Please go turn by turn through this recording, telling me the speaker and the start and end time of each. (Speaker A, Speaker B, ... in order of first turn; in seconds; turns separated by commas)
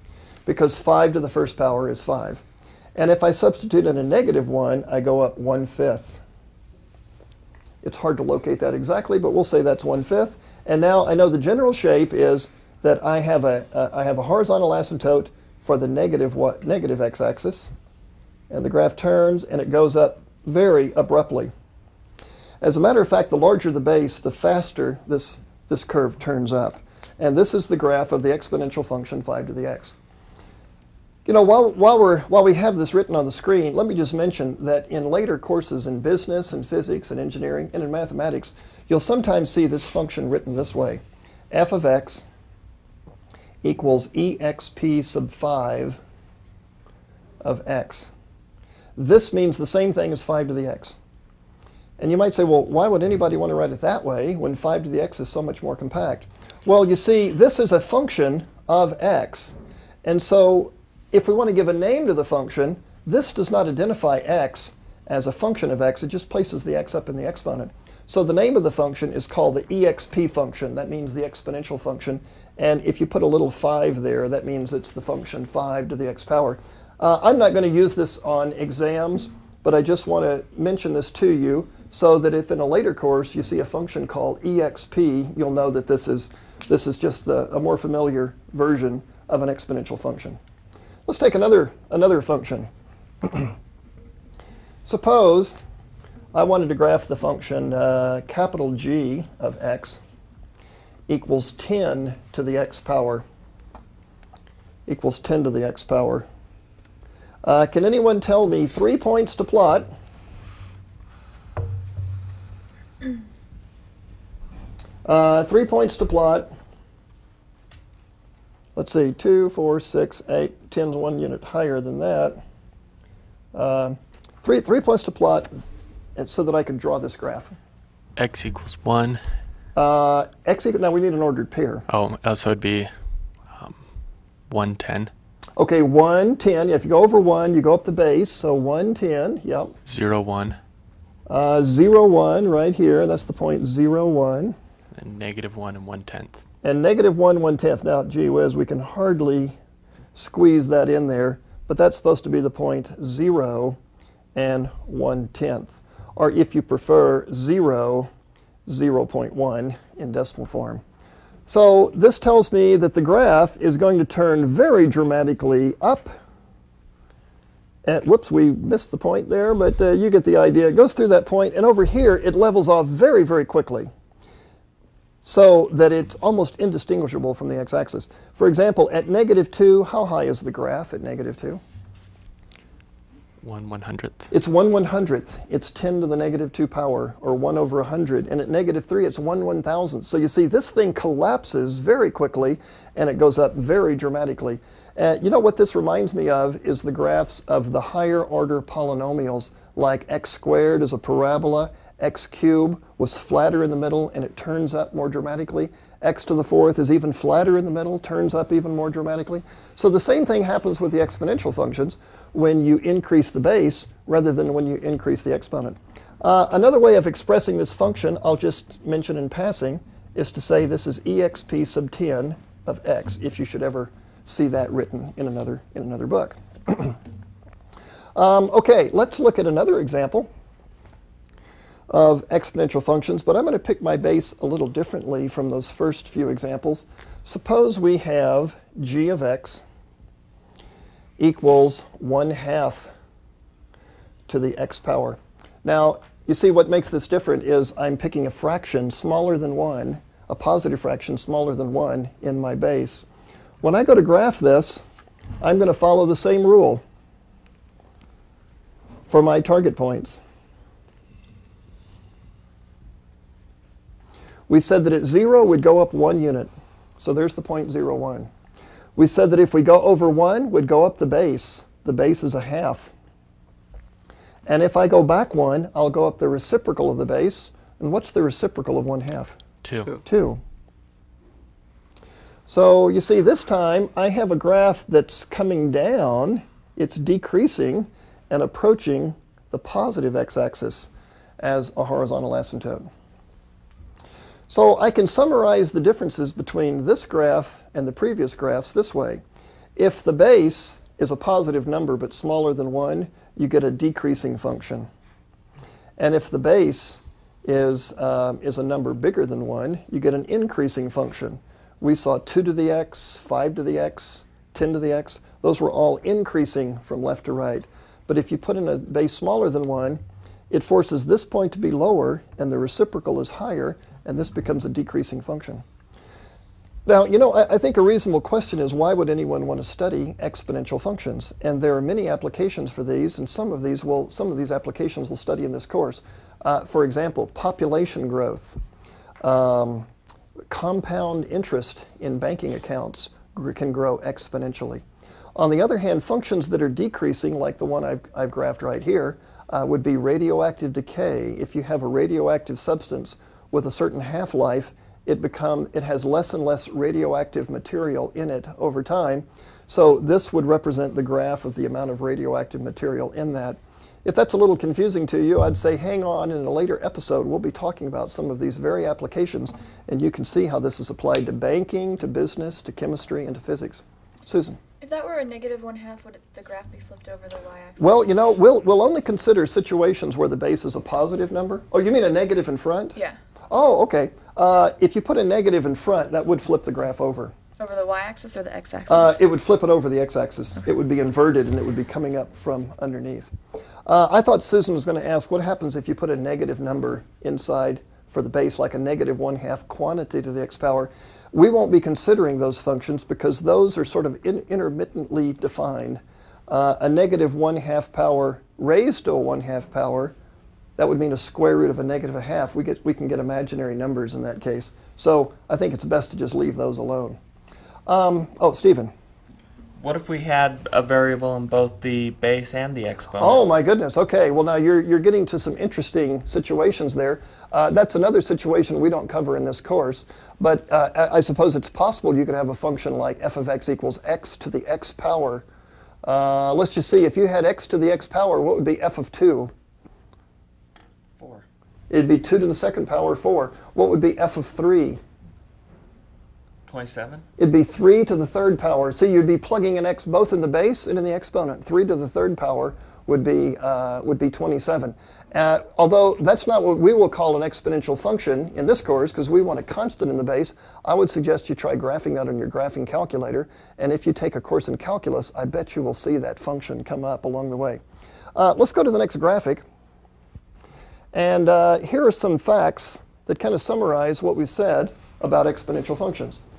Speaker A: 0.5-2.4, Speaker A: 3.0-6.2, Speaker A: 7.8-17.7, Speaker A: 18.5-21.5, Speaker A: 22.6-29.9, Speaker A: 31.2-42.2, Speaker A: 43.6-46.0, Speaker A: 47.4-48.1, Speaker A: 49.0-51.0, Speaker A: 52.0-90.4, Speaker A: 91.0-92.7, Speaker A: 93.2-93.5, Speaker A: 94.8-95.5, Speaker A: 96.3-100.0, Speaker A: 101.1-103.2, Speaker A: 104.8-106.2, Speaker A: 107.4-109.9, Speaker A: 115.0-116.5, Speaker A: 118.8-122.4, Speaker A: 123.5-127.5, Speaker B: 128.2-129.3, Speaker A: 129.7-131.8, Speaker B: 131.9-132.9, Speaker B: 133.5-133.8, Speaker B: 134.5-135.1, Speaker A: 135.6-139.7, Speaker B: 139.8-140.6, Speaker A: 141.3-144.6, Speaker B: 144.9-146.4, Speaker A: 146.6-149.6, Speaker A: 150.1-153.8, Speaker A: 154.3-158.1, Speaker A: 158.7-160.8, Speaker A: 161.5-166.1, Speaker A: 167.8-173.9, Speaker A: 175.2-181.6, Speaker B: 183.4-184.3, Speaker A: 184.3-227.0, Speaker A: 228.1-230.3, Speaker A: 231.9-239.6, Speaker A: 241.2-242.9, Speaker A: 244.3-253.1, Speaker A: 253.6-254.8, Speaker A: 255.4-256.8, Speaker A: 259.1-260.2, Speaker A: 264.5-268.3, Speaker A: 268.9-272.9, Speaker A: 274.4-279.4, Speaker B: 279.6-280.0, Speaker A: 280.0-280.4, Speaker A: 282.5-292.9, Speaker A: 294.5-299.2, Speaker A: 299.8-304.9, Speaker A: 306.0-325.6, Speaker A: 326.9-338.6, Speaker A: 339.2-339.9, Speaker A: 340.5-344.8, Speaker A: 345.3-374.6, Speaker C: 374.8-378.1, Speaker A: 377.8-383.0, Speaker A: 383.5-387.3, Speaker C: 387.6-389.2, Speaker A: 388.9-393.3, Speaker A: 393.9-410.1, Speaker A: 410.8-417.2, Speaker A: 417.9-418.9, Speaker D: 419.8-423.4, Speaker A: 423.2-435.4, Speaker A: 436.0-439.5, Speaker D: 441.2-441.4, Speaker A: 441.9-445.0, Speaker D: 446.7-447.2, Speaker A: 447.4-467.8, Speaker A: 468.3-469.6, Speaker A: 471.1-476.4